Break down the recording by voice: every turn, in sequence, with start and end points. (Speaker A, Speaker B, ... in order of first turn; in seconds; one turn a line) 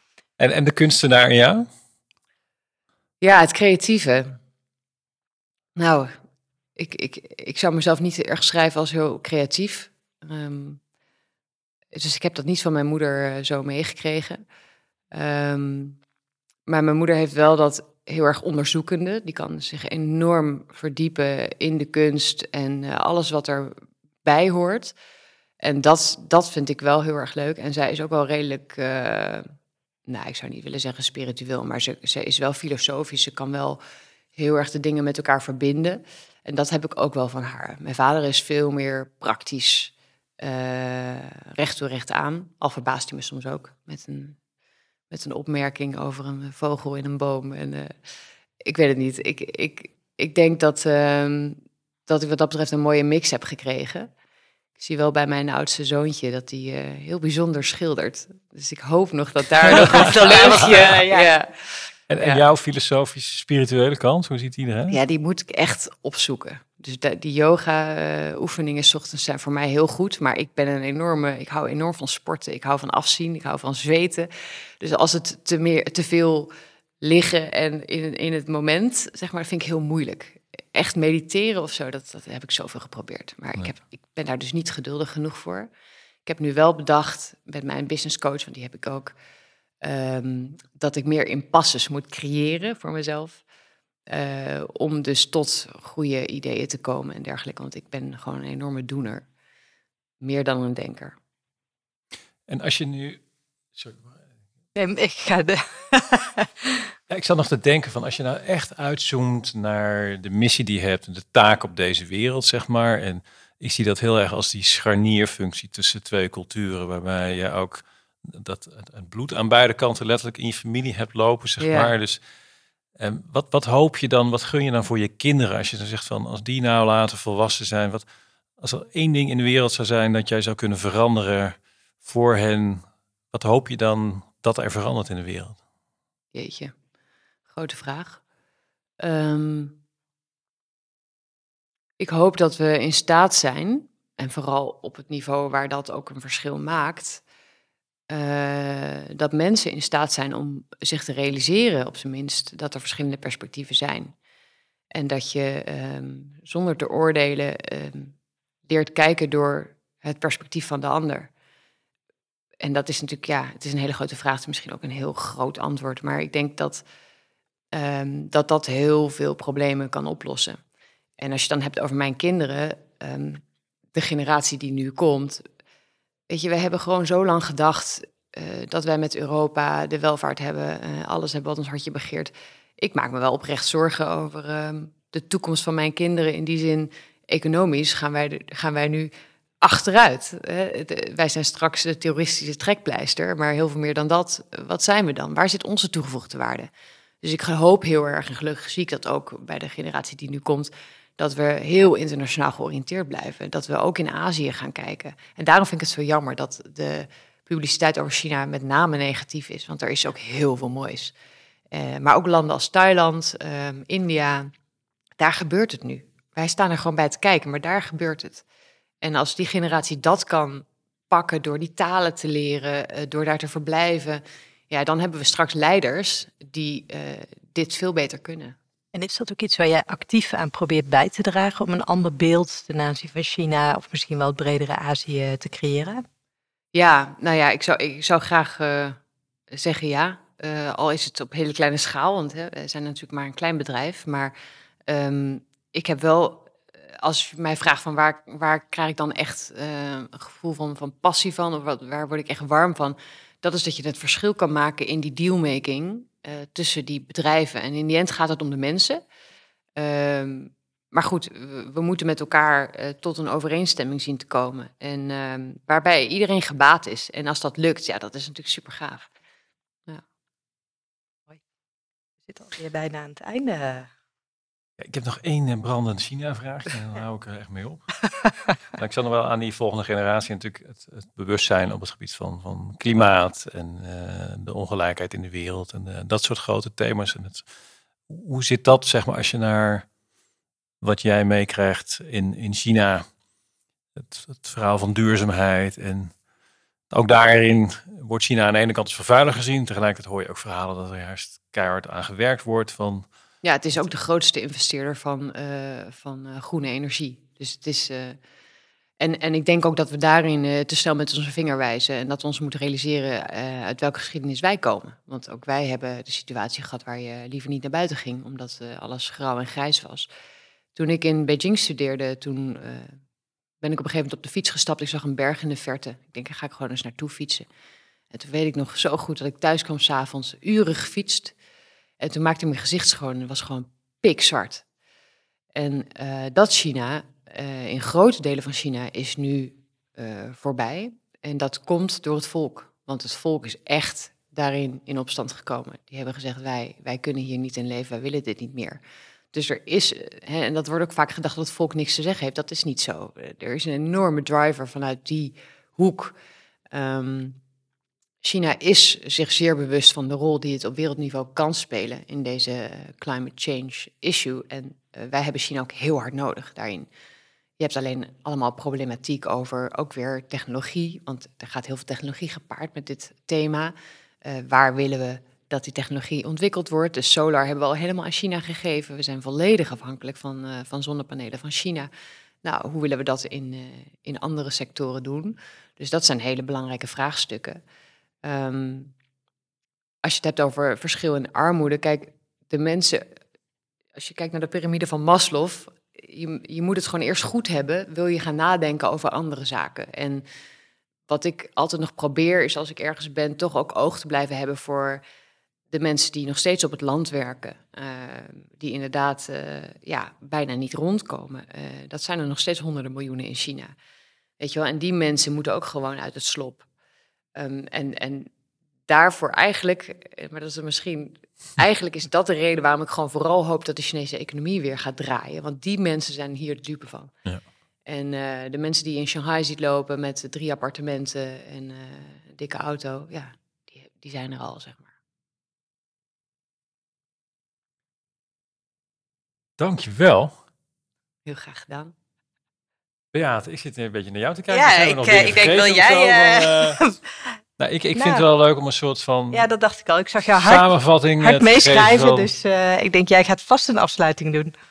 Speaker A: 0.4-1.7
Speaker B: 3.2-4.4
Speaker B: 5.8-6.1
Speaker B: 6.8-10.8
Speaker B: 11.9-14.4
Speaker B: 15.1-16.0
Speaker B: 16.7-24.9
Speaker B: 25.6-29.5
Speaker B: 30.1-33.8
Speaker B: 34.4-44.4
Speaker B: 45.1-47.9
Speaker B: 48.7-54.1
Speaker B: 54.8-62.4
Speaker A: 59.7-60.0
Speaker C: 59.7-61.3
Speaker A: 62.1-65.0
Speaker B: 64.9-74.3
Speaker B: 74.8-76.5
Speaker B: 77.0-85.7
Speaker B: 86.3-89.1
Speaker B: 89.8-93.4
Speaker B: 94.1-99.3
Speaker B: 100.2-101.2
Speaker A: 102.5-103.2
Speaker A: 103.8-104.2
Speaker C: 104.8-106.9
Speaker A: 107.1-122.2
Speaker B: 121.6-121.9
Speaker A: 123.0-128.0
Speaker A: 128.6-135.6
Speaker B: 136.3-136.7
Speaker B: 137.5-138.2
Speaker B: 139.0-139.8
Speaker B: 142.0-147.2
Speaker B: 148.1-154.1
Speaker B: 154.9-158.1
Speaker B: 158.7-161.3
Speaker B: 162.6-166.8
Speaker B: 167.7-170.6
Speaker B: 171.2-175.4
Speaker B: 176.3-189.1
Speaker B: 189.6-196.7
Speaker B: 197.2-211.1
Speaker B: 211.7-214.5
Speaker B: 215.2-218.4
Speaker B: 219.0-228.6
Speaker C: 228.9-236.0
Speaker B: 236.7-239.0
Speaker B: 239.5-244.3
Speaker B: 244.9-259.0
Speaker B: 259.8-269.1
Speaker C: 272.2-273.9
Speaker A: 274.8-278.0
Speaker A: 278.7-287.4
Speaker A: 288.1-289.9
Speaker A: 290.8-293.1
Speaker A: 294.0-296.1
Speaker A: 296.9-303.1
Speaker B: 303.4-308.2
Speaker B: 309.0-320.1
Speaker B: 320.8-322.9
Speaker B: 323.6-327.5
Speaker B: 328.1-331.3
Speaker B: 332.0-334.6
Speaker B: 335.6-348.8
Speaker B: 349.3-356.1
Speaker B: 356.7-357.4
Speaker B: 358.2-366.9
Speaker B: 367.6-381.9
Speaker B: 382.4-387.6
Speaker B: 388.2-388.9
Speaker B: 390.0-393.1
Speaker B: 394.0-400.2
Speaker B: 401.1-405.0
Speaker B: 405.7-413.7
Speaker B: 414.4-416.6
Speaker B: 417.4-418.3
Speaker B: 418.9-427.1
Speaker B: 427.9-434.9
Speaker A: 439.6-440.3
Speaker B: 441.3-441.9
Speaker A: 443.1-446.8
Speaker C: 444.5-447.0
Speaker A: 447.6-449.5
Speaker C: 447.9-448.2
Speaker C: 449.3-454.5
Speaker A: 450.4-452.3